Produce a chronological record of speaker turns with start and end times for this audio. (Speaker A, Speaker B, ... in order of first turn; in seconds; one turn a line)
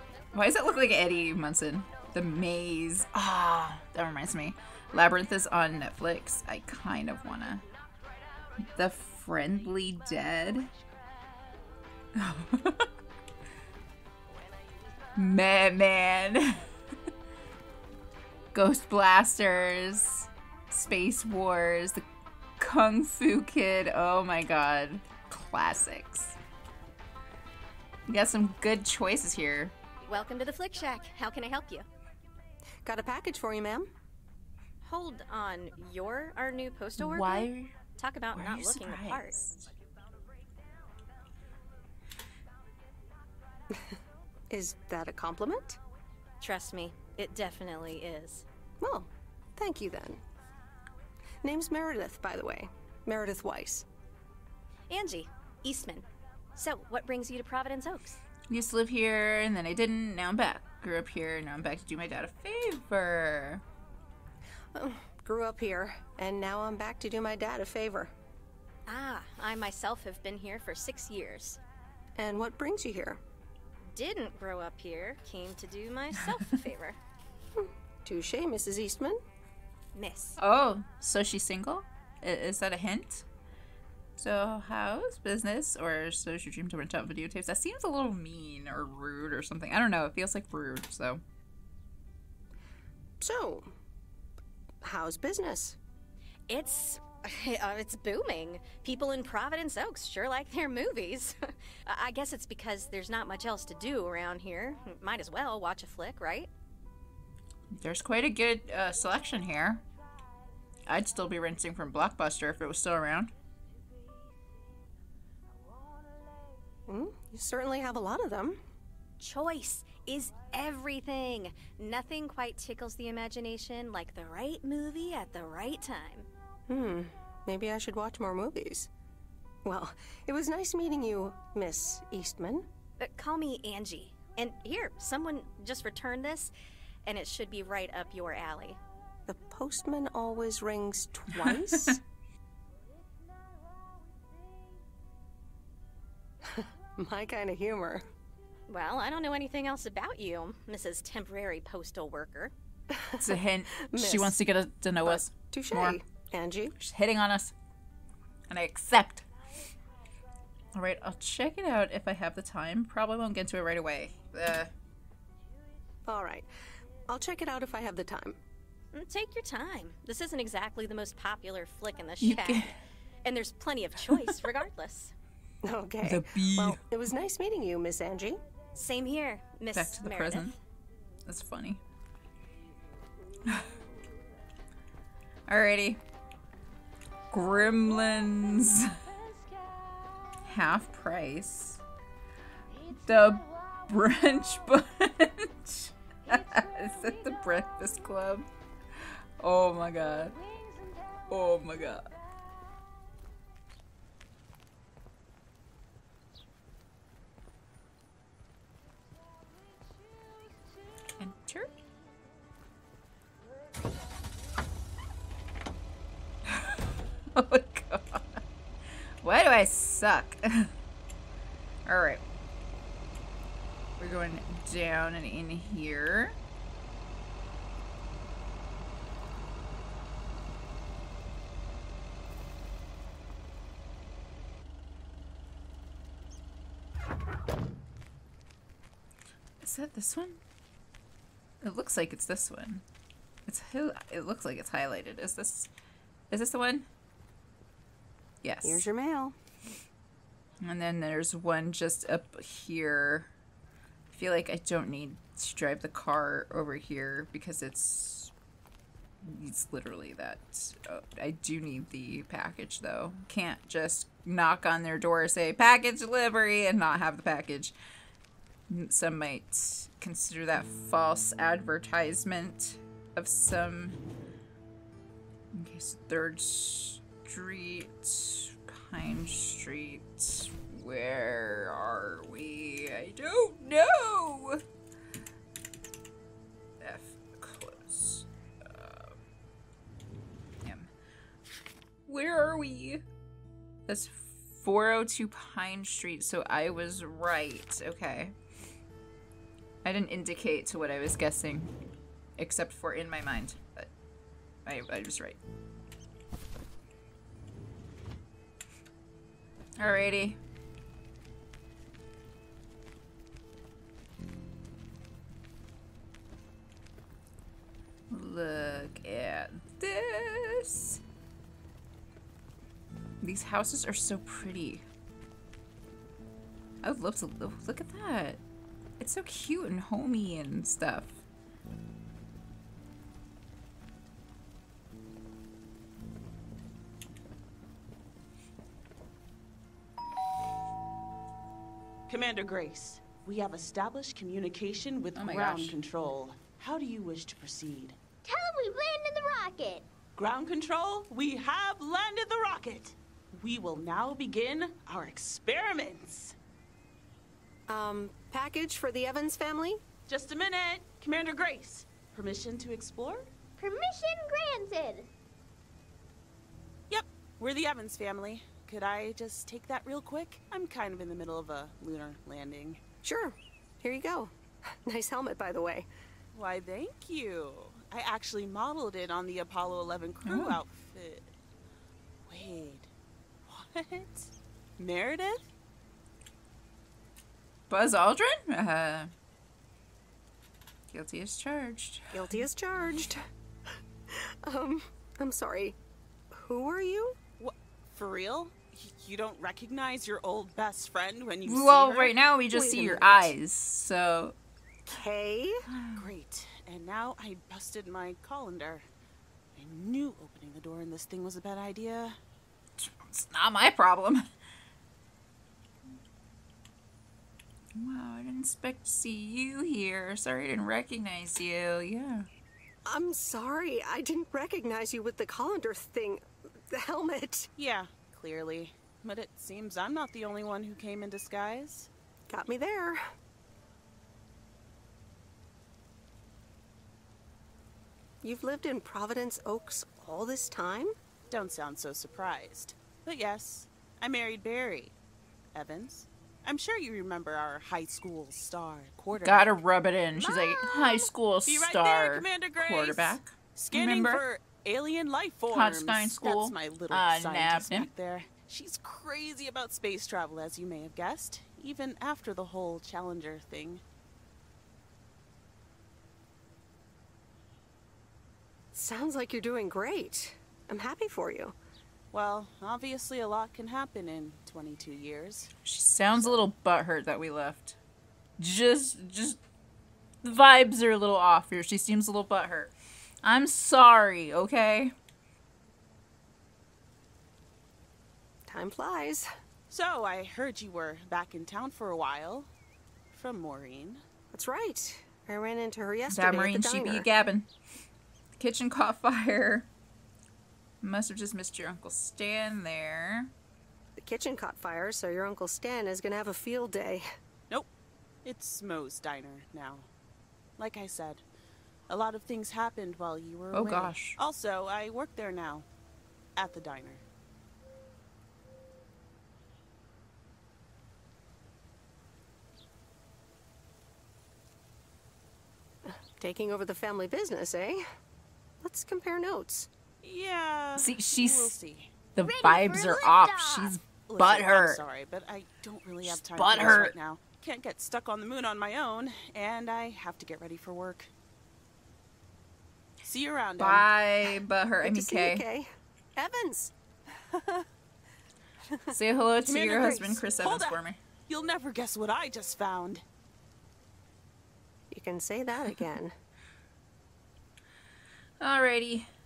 Speaker A: 0.3-7.7
Speaker A: 8.7-10.7
Speaker A: 12.2-12.9
Speaker A: 15.2-16.6
Speaker A: 18.5-22.0
Speaker A: 22.6-26.4
Speaker A: 28.1-29.7
Speaker B: 30.1-31.9
Speaker C: 32.9-33.9
Speaker B: 34.8-39.4
Speaker A: 37.0-37.7
Speaker A: 38.3-39.7
Speaker C: 44.5-45.8
Speaker B: 46.4-48.5
Speaker C: 48.8-50.2
Speaker C: 51.4-53.9
Speaker B: 54.9-58.2
Speaker A: 58.5-63.6
Speaker C: 64.7-68.1
Speaker B: 68.9-71.6
Speaker C: 72.2-73.2
Speaker B: 73.9-77.0
Speaker C: 77.6-79.2
Speaker B: 79.9-80.4
Speaker A: 80.4-83.2
Speaker A: 84.2-91.2
Speaker C: 93.2-93.7
Speaker C: 94.8-95.8
Speaker B: 96.5-106.5
Speaker A: 107.8-109.8
Speaker A: 110.9-113.3
Speaker C: 116.9-118.6
Speaker B: 119.2-126.3
Speaker C: 126.7-128.9
Speaker C: 129.7-132.7
Speaker B: 133.0-136.5
Speaker B: 137.1-138.8
Speaker C: 139.3-142.0
Speaker C: 146.4-148.1
Speaker B: 148.7-152.5
Speaker C: 152.9-154.4
Speaker A: 153.2-156.0
Speaker C: 155.0-156.8
Speaker A: 156.8-157.5
Speaker A: 158.5-159.2
Speaker A: 160.7-164.7
Speaker C: 166.1-166.5
Speaker C: 167.1-168.4
Speaker B: 168.9-175.1
Speaker A: 172.2-172.8
Speaker C: 175.6-178.4
Speaker A: 176.0-176.8
Speaker B: 178.8-180.6
Speaker A: 179.7-180.6
Speaker A: 181.3-181.8
Speaker A: 183.5-183.7
Speaker A: 185.5-186.0
Speaker A: 187.3-188.9
Speaker A: 190.4-191.8
Speaker A: 193.0-198.5
Speaker A: 199.4-200.4
Speaker A: 201.3-202.1
Speaker A: 211.2-211.7
Speaker A: 216.5-218.4
Speaker A: 219.2-220.7
Speaker A: 221.9-222.2
Speaker A: 224.0-226.4
Speaker A: 239.6-240.4
Speaker A: 241.6-242.8
Speaker A: 243.5-245.7
Speaker A: 246.3-246.9
Speaker A: 248.4-248.9
Speaker C: 248.6-249.3
Speaker A: 250.6-253.3
Speaker A: 254.1-258.3
Speaker A: 259.2-267.7
Speaker A: 268.7-274.0
Speaker A: 275.5-284.6
Speaker A: 286.8-289.1
Speaker A: 290.6-290.9
Speaker A: 292.1-293.0
Speaker A: 293.9-298.3
Speaker A: 299.9-301.7
Speaker A: 302.4-303.9
Speaker A: 304.7-305.4
Speaker A: 309.8-310.4
Speaker A: 318.1-321.0
Speaker A: 323.2-324.8
Speaker A: 326.8-328.4
Speaker A: 329.0-331.2
Speaker D: 342.1-348.0
Speaker A: 345.1-345.8
Speaker E: 348.2-349.9
Speaker D: 350.2-356.4
Speaker C: 357.7-359.8
Speaker D: 360.1-363.3
Speaker E: 363.6-365.1
Speaker D: 366.9-372.8
Speaker C: 373.0-375.9
Speaker D: 376.3-381.3
Speaker A: 380.2-380.6
Speaker D: 382.3-382.9
Speaker D: 383.4-385.5
Speaker A: 387.7-389.1
Speaker A: 390.9-392.3
Speaker C: 392.1-393.2
Speaker C: 394.1-395.8
Speaker C: 396.3-397.2
Speaker D: 397.4-402.1
Speaker A: 401.4-404.4
Speaker C: 402.5-403.3
Speaker C: 404.9-405.6
Speaker A: 405.7-406.1
Speaker D: 406.0-408.9
Speaker D: 409.6-412.2
Speaker A: 412.8-414.2
Speaker A: 417.8-422.3
Speaker C: 422.9-427.5
Speaker D: 427.6-431.9
Speaker C: 432.3-433.0
Speaker C: 438.2-440.9
Speaker D: 441.3-444.9
Speaker D: 445.5-449.5
Speaker A: 449.2-454.2
Speaker D: 451.5-463.8
Speaker A: 455.5-457.9
Speaker C: 468.7-471.6
Speaker D: 472.1-475.5
Speaker A: 475.6-477.8
Speaker A: 478.4-479.4
Speaker A: 480.2-482.7
Speaker A: 483.2-484.9
Speaker C: 488.5-489.3
Speaker D: 489.7-492.5
Speaker D: 493.1-494.0
Speaker C: 494.3-497.1
Speaker A: 496.1-497.5
Speaker A: 498.4-499.7
Speaker A: 500.8-503.3
Speaker C: 504.0-507.1
Speaker D: 508.2-509.9
Speaker D: 510.6-511.2
Speaker D: 511.9-515.7
Speaker A: 513.5-514.2
Speaker D: 516.4-517.0
Speaker C: 525.9-527.8
Speaker C: 528.6-529.7
Speaker D: 530.0-531.9
Speaker A: 530.8-531.6
Speaker A: 532.1-534.8
Speaker E: 532.2-533.7
Speaker D: 534.0-541.1
Speaker A: 536.0-536.9
Speaker D: 543.0-543.9
Speaker A: 543.6-545.4
Speaker C: 544.8-547.7
Speaker C: 548.7-548.9
Speaker A: 548.9-551.0
Speaker D: 549.5-553.0
Speaker C: 554.9-556.1
Speaker A: 558.4-559.1